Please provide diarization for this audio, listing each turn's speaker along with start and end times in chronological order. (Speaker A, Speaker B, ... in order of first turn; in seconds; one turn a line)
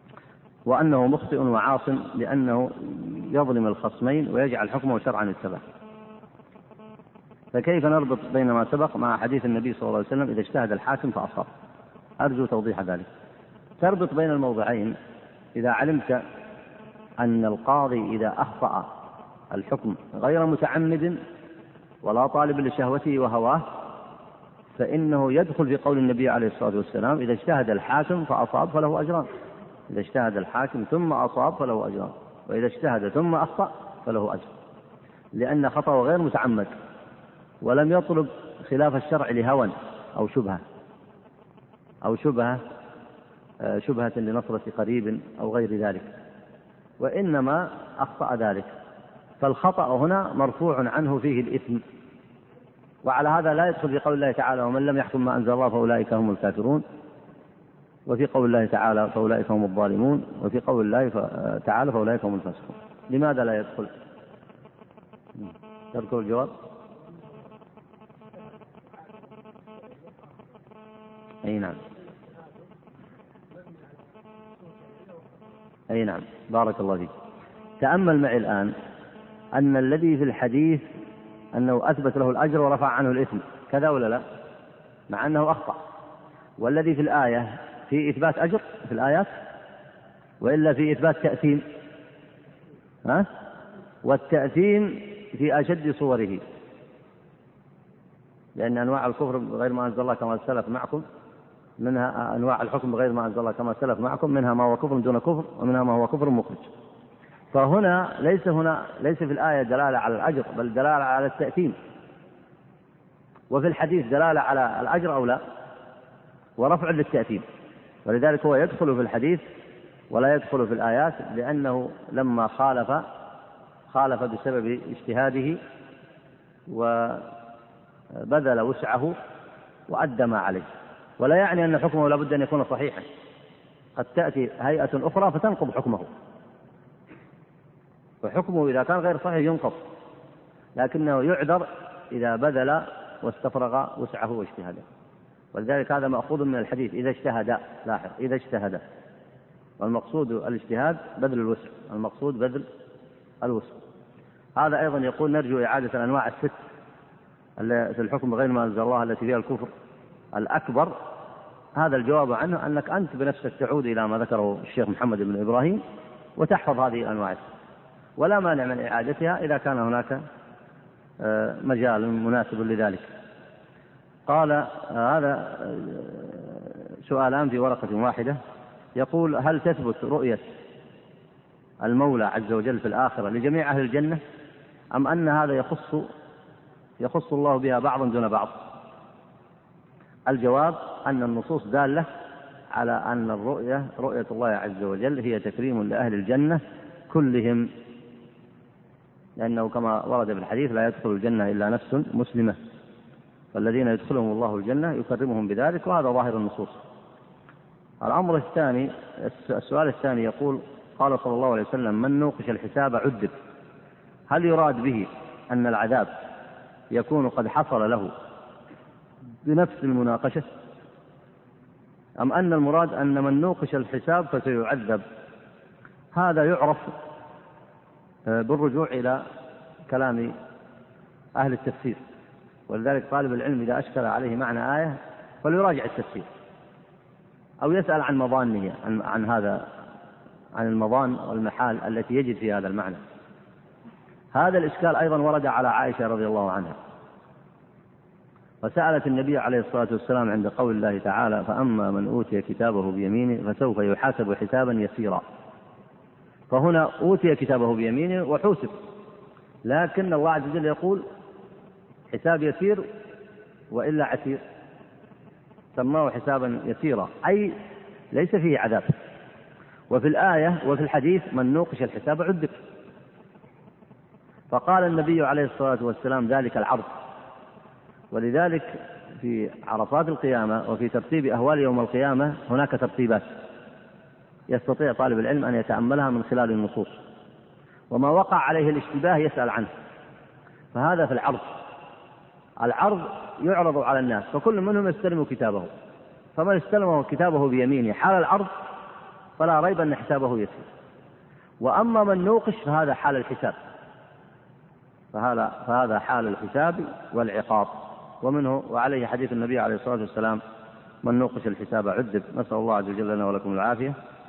Speaker A: 0.7-5.6
Speaker A: 7.5-11.5
Speaker A: 12.2-13.1
Speaker A: 13.8-14.9
Speaker A: 15.6-16.2
Speaker A: 17.2-18.9
Speaker A: 19.5-21.2
Speaker A: 22.0-23.6
Speaker A: 24.8-29.3
Speaker A: 29.9-34.5
Speaker A: 35.3-36.7
Speaker A: 37.6-40.6
Speaker A: 42.0-42.6
Speaker A: 43.6-46.1
Speaker A: 47.0-48.7
Speaker A: 49.4-51.8
Speaker A: 53.0-56.8
Speaker A: 58.1-63.9
Speaker A: 65.4-66.5
Speaker A: 71.4-71.8
Speaker A: 75.9-77.1
Speaker A: 77.8-78.7
Speaker A: 79.5-80.9
Speaker A: 81.5-84.2
Speaker A: 85.1-85.8
Speaker A: 86.6-89.3
Speaker A: 90.4-91.6
Speaker A: 94.0-96.4
Speaker A: 98.5-101.0
Speaker A: 101.8-106.7
Speaker A: 107.5-111.8
Speaker A: 113.5-115.4
Speaker A: 116.6-117.4
Speaker A: 118.0-119.4
Speaker A: 120.1-123.0
Speaker A: 123.9-125.6
Speaker A: 126.7-127.3
Speaker A: 128.1-129.1
Speaker A: 129.9-130.7
Speaker A: 131.2-133.1
Speaker A: 134.0-136.1
Speaker A: 138.2-139.8
Speaker A: 140.8-144.8
Speaker A: 145.5-148.8
Speaker A: 149.8-152.7
Speaker A: 153.4-153.8
Speaker A: 154.6-156.5
Speaker A: 157.6-159.7
Speaker A: 160.3-160.9
Speaker A: 161.8-165.8
Speaker A: 166.4-167.4
Speaker A: 168.2-170.2
Speaker A: 171.2-173.1
Speaker A: 174.3-178.4
Speaker A: 178.9-180.4
Speaker A: 181.8-184.2
Speaker A: 184.9-186.1
Speaker A: 187.0-188.7
Speaker A: 190.3-192.1
Speaker A: 192.7-197.7
Speaker A: 199.4-202.6
Speaker A: 203.5-206.8
Speaker A: 208.0-213.3
Speaker A: 214.3-216.1
Speaker A: 216.9-218.1
Speaker A: 219.4-220.5
Speaker A: 222.2-225.0
Speaker A: 226.1-226.9
Speaker A: 228.3-229.2
Speaker A: 229.9-230.3
Speaker A: 231.4-232.0
Speaker A: 232.7-236.3
Speaker A: 237.6-239.7
Speaker A: 240.5-243.0
Speaker A: 244.3-246.7
Speaker A: 248.6-255.2
Speaker A: 256.5-258.8
Speaker A: 259.6-261.0
Speaker A: 262.1-262.8
Speaker A: 263.7-264.4
Speaker A: 265.8-267.5
Speaker A: 268.1-268.9
Speaker A: 269.9-272.6
Speaker A: 274.5-276.9
Speaker A: 278.1-283.2
Speaker A: 284.5-287.0
Speaker A: 287.9-289.7
Speaker A: 290.7-291.5
Speaker A: 292.6-295.7
Speaker A: 296.4-298.5
Speaker A: 299.4-300.7
Speaker A: 301.6-303.6
Speaker A: 305.1-310.4
Speaker A: 311.0-313.9